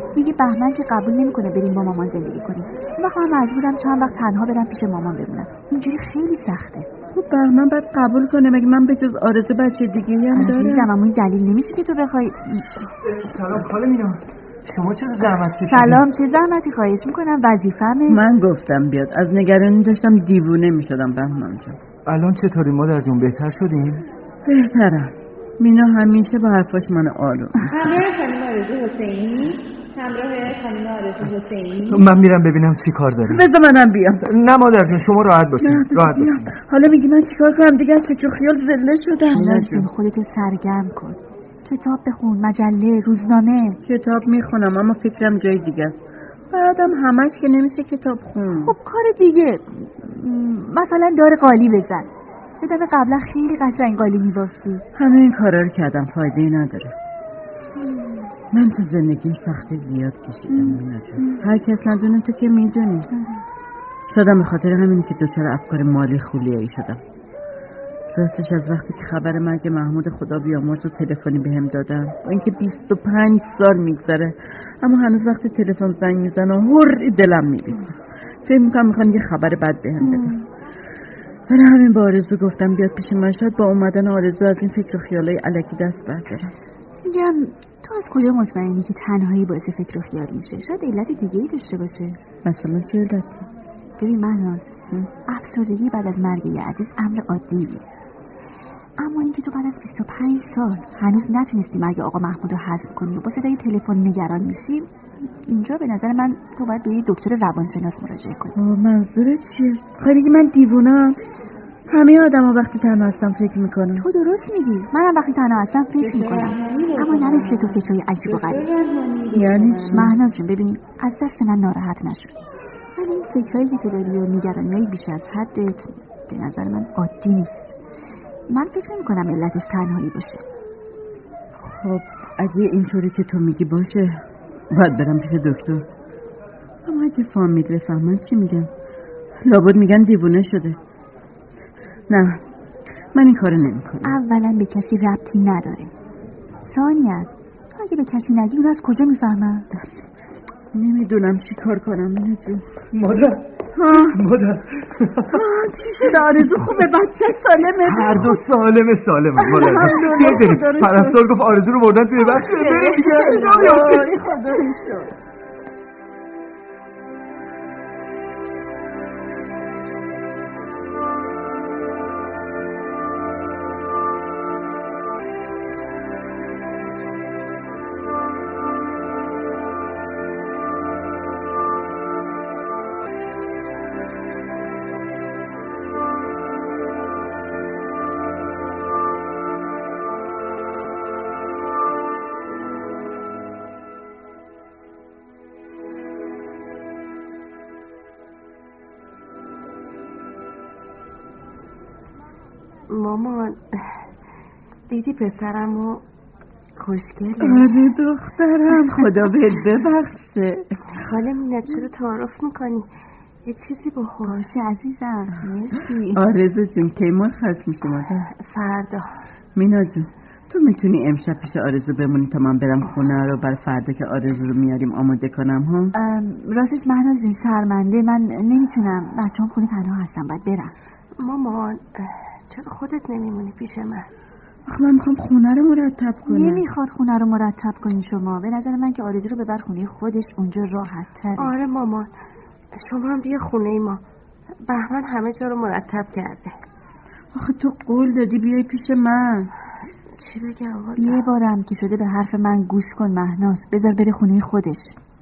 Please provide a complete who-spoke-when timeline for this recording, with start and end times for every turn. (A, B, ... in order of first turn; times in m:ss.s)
0:00.2-0:06.9 A
0:07.1-0:10.9 B
0:10.3-0:12.8 A
0:13.0-0:16.0 C
0:15.6-0:18.2 A
0:18.1-0:21.8 B
0:22.1-0:24.0 C
0:24.4-0:27.8 B
0:27.7-0:32.1 D
0:31.8-0:33.5 C
0:33.3-0:34.3 B
0:34.2-0:36.5 C
0:35.6-0:39.9 B
0:39.3-0:43.8 A
0:43.8-0:46.0 B
0:46.5-0:48.8 B
0:48.5-0:52.1 A
0:52.6-0:54.8 A
0:55.0-0:56.9 B
0:58.5-1:03.1 B
1:00.5-1:01.4 A
1:04.1-1:07.0 B
1:08.1-1:20.4 B
1:20.0-1:20.3 A
1:21.5-1:26.5 B
1:27.0-1:32.2 A
1:32.4-1:33.5 B
1:34.0-1:34.7 A
1:35.3-1:37.8 A
1:39.0-1:48.6 A
1:48.6-1:51.2 B
1:51.9-1:54.1 B
1:54.0-1:58.7 A
1:56.0-2:00.0 D
1:59.3-2:00.2 B
1:59.9-2:02.4 A
2:03.0-2:07.8 A
2:08.5-2:10.4 A
2:11.6-2:15.9 B
2:16.8-2:18.7 B
2:19.4-2:20.8 B
2:22.1-2:22.4 B
2:23.1-2:24.2 B
2:24.0-2:25.9 A
2:26.6-2:29.7 A
2:30.7-2:32.6 B
2:32.9-2:33.5 C
2:33.8-2:34.2 B
2:34.0-2:35.4 C
2:35.3-2:38.5 B
2:37.8-2:44.1 C
2:39.5-2:41.2 B
2:42.4-2:44.1 A
2:42.6-2:45.1 B
3:22.9-3:24.0 E
3:24.9-3:26.0 E
3:26.8-3:27.8 E
3:27.4-3:30.8 B
3:30.9-3:32.9 E
3:33.5-3:34.4 E
3:34.2-3:36.2 A
3:36.2-3:38.3 B
3:38.3-3:39.1 E
3:39.5-3:45.9 B
3:45.9-3:50.7 A
3:51.2-3:54.1 E
3:54.7-3:56.6 B
3:56.3-4:01.5 A
4:01.4-4:02.1 E
4:02.8-4:04.0 E
4:04.7-4:06.5 E
4:07.3-4:09.5 B
4:10.2-4:11.3 E
4:11.0-4:15.0 A